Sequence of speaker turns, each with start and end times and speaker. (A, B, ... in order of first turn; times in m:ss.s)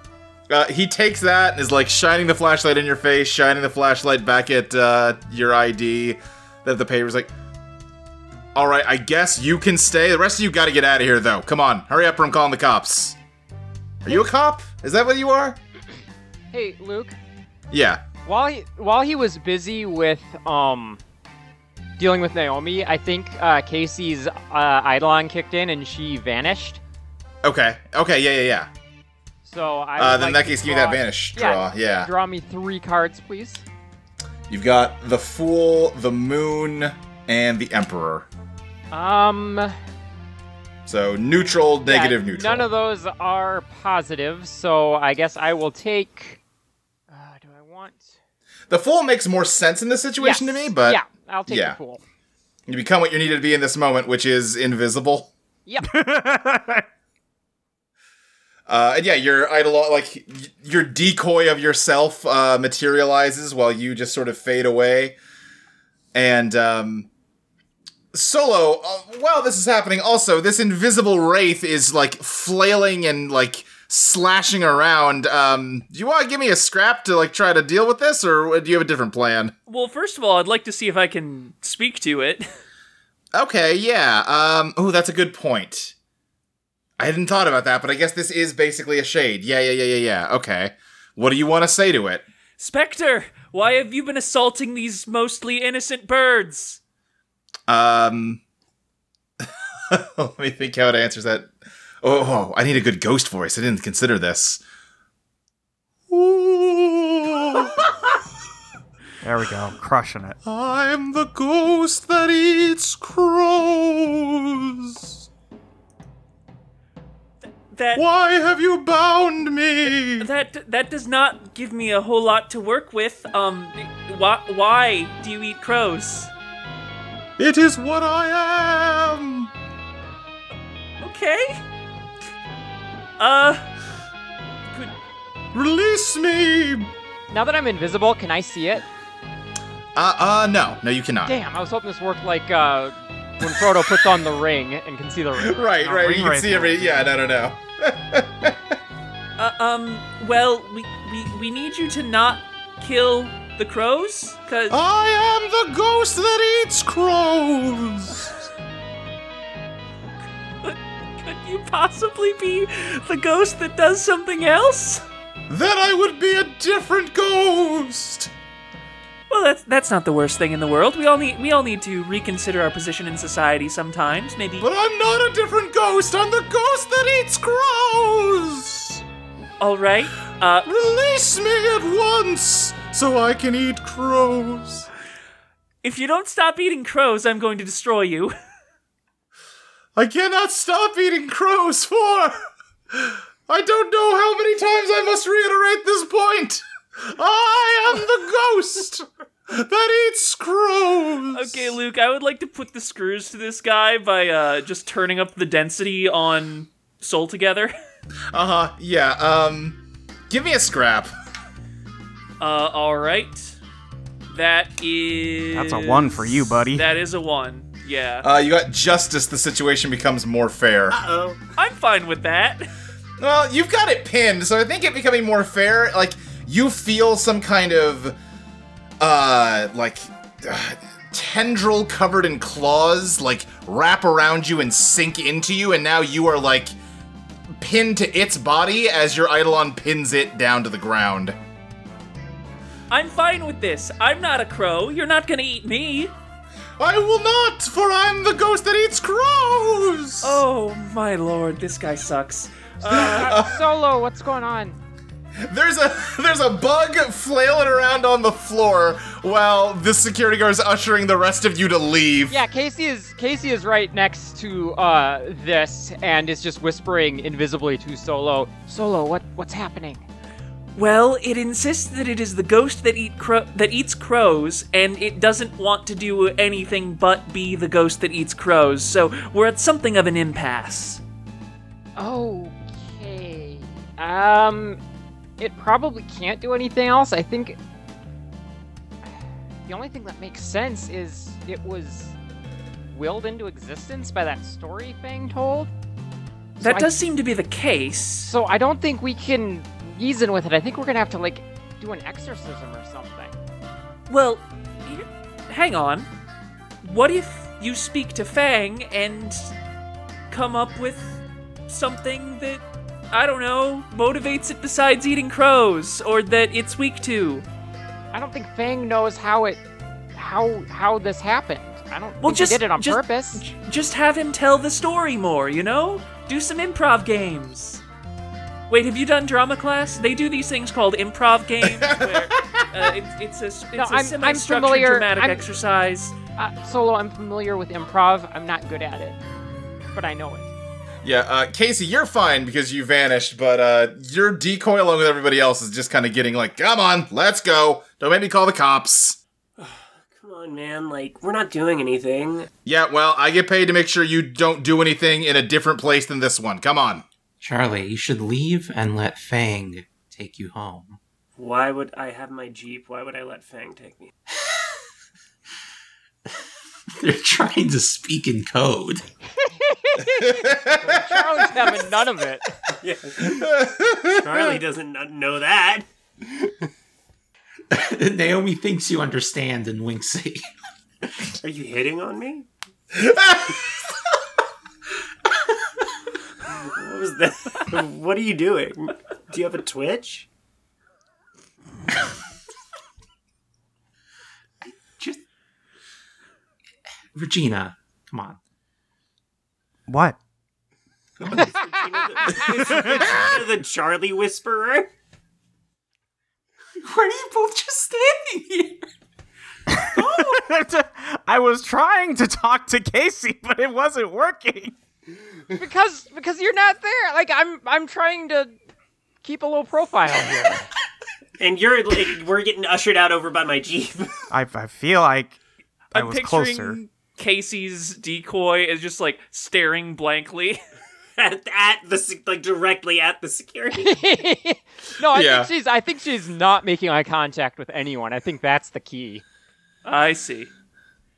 0:00.5-0:07.3 A
0:08.5-0:13.2 A
0:14.0-0:15.6 A
0:16.5-0:17.2 B
0:17.7-0:18.0 A
0:18.2-0:21.0 B
0:22.0-0:26.8 B
0:27.4-0:28.7 A
0:29.4-0:33.6 B
0:30.0-0:32.1 A
0:34.5-0:38.3 A
0:38.9-0:39.7 B
0:40.8-0:42.7 A
0:41.8-0:46.4 B
0:47.1-0:48.1 B
0:48.7-0:51.8 A
0:50.2-0:52.0 B
0:52.7-0:55.3 A
0:55.8-0:56.8 C
0:58.7-1:05.2 A
1:06.1-1:07.1 A
1:08.1-1:19.5 A
1:19.7-1:22.5 D
1:23.3-1:25.9 A
1:27.0-1:32.2 A
1:32.6-1:36.8 D
1:37.7-1:38.4 A
1:39.4-1:41.5 A
1:42.0-1:44.6 A
1:46.1-1:48.1 A
1:49.2-1:50.4 C
1:50.4-1:55.2 A
1:57.7-1:58.0 D
1:58.0-2:00.3 A
1:59.8-2:06.3 D
2:07.4-2:09.5 A
2:11.0-2:11.6 D
2:13.2-2:13.6 D
2:15.5-2:16.9 A
2:17.3-2:18.8 B
2:20.0-2:21.3 A
2:21.2-2:26.5 B
2:25.4-2:28.7 A
2:25.9-2:27.1 C
2:29.4-2:34.8 D
2:34.7-2:38.3 A
2:40.6-2:45.0 D
2:45.5-2:48.3 A
2:49.3-2:54.7 D
2:54.6-2:59.0 A
2:59.6-3:00.7 D
3:00.6-3:04.9 A
3:05.8-3:08.3 D
3:10.0-3:12.4 A
3:12.9-3:21.7 A
3:21.3-3:27.7 D
3:28.3-3:29.8 A
3:30.3-3:31.1 A
3:32.4-3:33.6 D
3:34.3-3:38.2 D
3:35.5-3:36.8 C
3:38.2-3:41.0 A
3:40.9-3:41.4 E
3:41.6-3:42.7 D
3:43.2-3:48.2 A
3:49.0-3:56.7 A
3:57.6-4:01.3 A
4:02.9-4:06.1 D
4:06.8-4:10.4 A
4:10.2-4:13.4 D
4:12.8-4:14.8 B
4:12.9-4:13.6 A
4:15.4-4:22.4 A
4:22.3-4:30.0 B
4:30.8-4:41.0 D
4:42.0-4:44.8 B
4:45.4-4:47.6 B
4:49.7-4:52.1 B
4:52.9-4:55.7 B
4:56.6-4:56.9 B
4:56.6-4:58.3 D
4:58.2-5:03.3 B
5:04.1-5:06.1 D
5:06.8-5:09.5 D
5:10.3-5:11.2 D
5:11.7-5:17.4 D
5:18.1-5:19.6 B
5:20.1-5:23.4 B
5:22.2-5:27.8 D
5:28.7-5:36.1 D
5:31.6-5:32.6 A
5:33.8-5:35.4 B
5:36.4-5:39.2 B
5:39.9-5:40.5 B
5:41.0-5:49.2 A
5:49.6-5:52.5 E
5:52.6-5:57.0 A
5:57.4-6:01.0 F
6:01.4-6:04.1 E
6:06.9-6:09.0 F
6:09.4-6:12.6 B
6:10.0-6:11.2 A
6:12.8-6:13.4 E
6:13.2-6:14.4 A
6:14.0-6:15.8 E
6:17.7-6:20.4 F
6:21.4-6:22.5 E
6:23.0-6:23.6 A
6:26.5-6:30.3 E
6:34.7-6:35.2 F
6:37.1-6:38.4 F
6:39.9-6:40.2 C
6:41.2-6:44.9 E
6:46.8-6:48.9 F
6:49.7-6:54.7 C
6:55.5-6:58.6 B
6:59.2-7:00.7 B
7:01.4-7:04.2 E
7:04.3-7:05.4 C
7:05.9-7:06.8 C
7:05.9-7:10.6 D
7:11.2-7:14.0 E
7:13.7-7:19.2 B
7:15.1-7:15.5 A
7:19.8-7:20.5 D